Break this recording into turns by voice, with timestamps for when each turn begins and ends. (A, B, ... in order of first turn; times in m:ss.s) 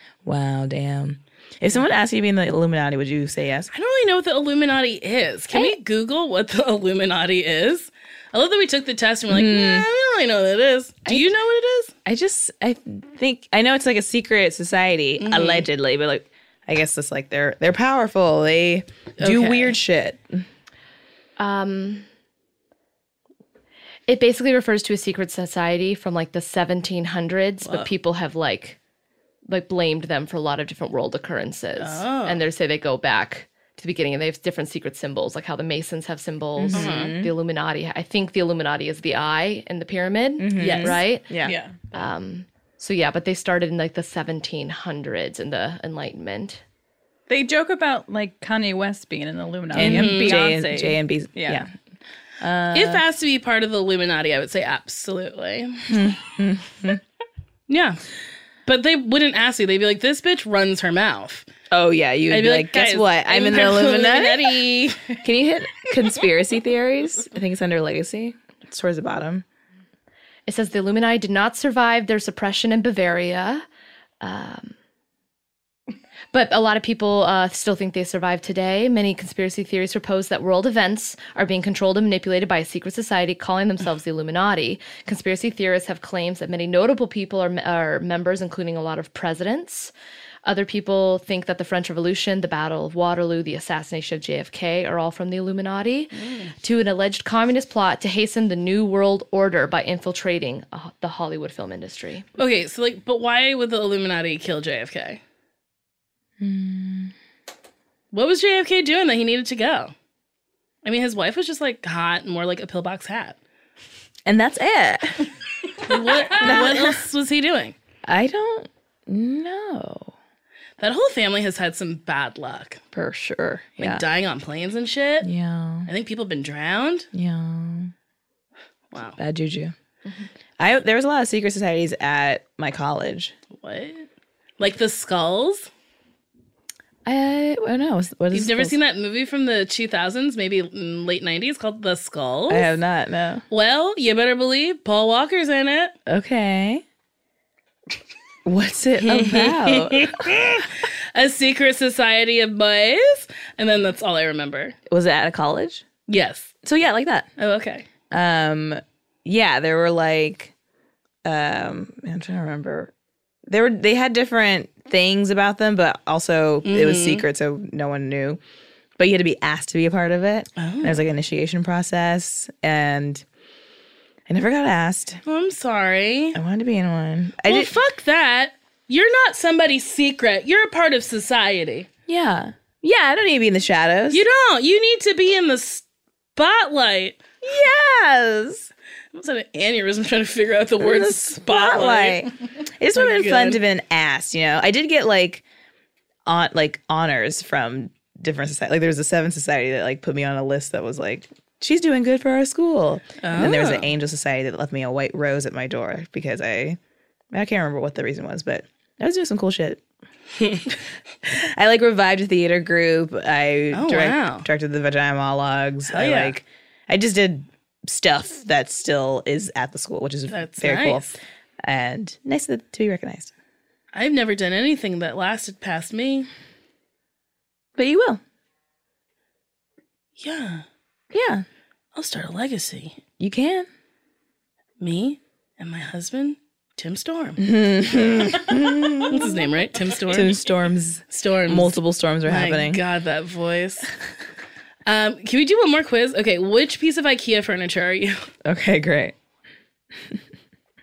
0:00.2-0:03.7 A
0:03.7-0:11.9 B
0:09.3-0:09.9 A
0:12.1-0:20.5 A
0:15.2-0:15.7 B
0:19.2-0:19.8 B
0:21.4-0:22.1 C
0:24.1-0:28.8 C
0:27.6-0:27.9 B
0:29.5-0:46.6 C
0:31.8-0:32.4 B
0:36.6-0:37.3 A
0:36.7-0:37.2 B
0:40.4-0:41.6 A
0:40.6-0:41.0 B
0:41.4-0:41.9 D
0:47.3-0:51.6 D
0:49.7-0:50.4 B
0:49.7-0:51.7 A
0:52.4-0:53.0 A
0:52.7-0:55.9 B
0:55.9-0:57.0 A
0:57.7-0:58.0 B
0:58.7-1:01.5 B
1:01.7-1:04.5 A
1:02.3-1:05.2 B
1:05.2-1:09.4 A
1:10.5-1:13.6 C
1:14.2-1:14.8 C
1:16.3-1:29.9 C
1:30.4-1:42.3 C
1:36.2-1:36.5 B
1:42.4-1:45.2 B
1:46.4-1:47.1 A
1:48.1-1:49.9 B
1:50.8-1:53.4 B
1:54.3-1:55.3 A
1:55.8-1:57.8 B
1:56.3-1:57.0 A
1:58.1-2:00.2 A
2:00.8-2:02.8 B
2:02.9-2:04.0 A
2:03.8-2:05.3 B
2:05.2-2:05.9 A
2:05.9-2:07.1 B
2:07.1-2:07.9 A
2:08.9-2:09.2 B
2:09.2-2:09.7 A
2:10.6-2:13.3 A
2:13.6-2:14.1 B
2:14.6-2:15.7 B
2:17.1-2:18.8 A
2:18.3-2:22.7 B
2:22.5-2:23.4 A
2:23.5-2:25.9 B
2:26.1-2:26.8 A
2:28.5-2:30.6 A
2:29.0-2:34.8 B
2:34.9-2:35.8 A
2:36.1-2:36.5 B
2:36.6-2:37.3 A
2:37.4-2:37.9 B
2:38.1-2:40.5 A
2:41.2-2:42.9 A
2:43.5-2:48.4 A
2:46.6-2:47.2 B
2:49.0-2:53.2 A
2:50.6-2:51.0 B
2:54.3-2:55.2 A
2:55.3-2:56.4 B
2:56.3-2:57.7 A
2:57.4-3:01.9 B
3:02.1-3:04.2 A
3:04.1-3:05.8 B
3:06.4-3:07.2 B
3:07.4-3:08.7 A
3:09.1-3:12.3 B
3:10.8-3:15.4 A
3:12.9-3:13.6 B
3:16.3-3:26.8 A
3:23.2-3:23.9 B
3:27.3-3:29.8 A
3:31.3-3:41.1 A
3:33.7-3:34.5 B
3:35.9-3:36.4 B
3:40.3-3:41.2 B
3:41.6-3:43.3 A
3:43.9-3:46.3 B
3:47.8-3:48.2 A
3:50.2-3:50.6 B
3:51.1-3:51.4 A
3:51.9-3:53.0 B
3:53.2-3:53.7 A
3:54.8-3:57.4 B
3:57.4-3:59.5 A
3:59.1-4:00.4 B
4:00.1-4:02.8 A
4:01.1-4:03.9 B
4:04.9-4:08.2 B
4:08.4-4:09.2 A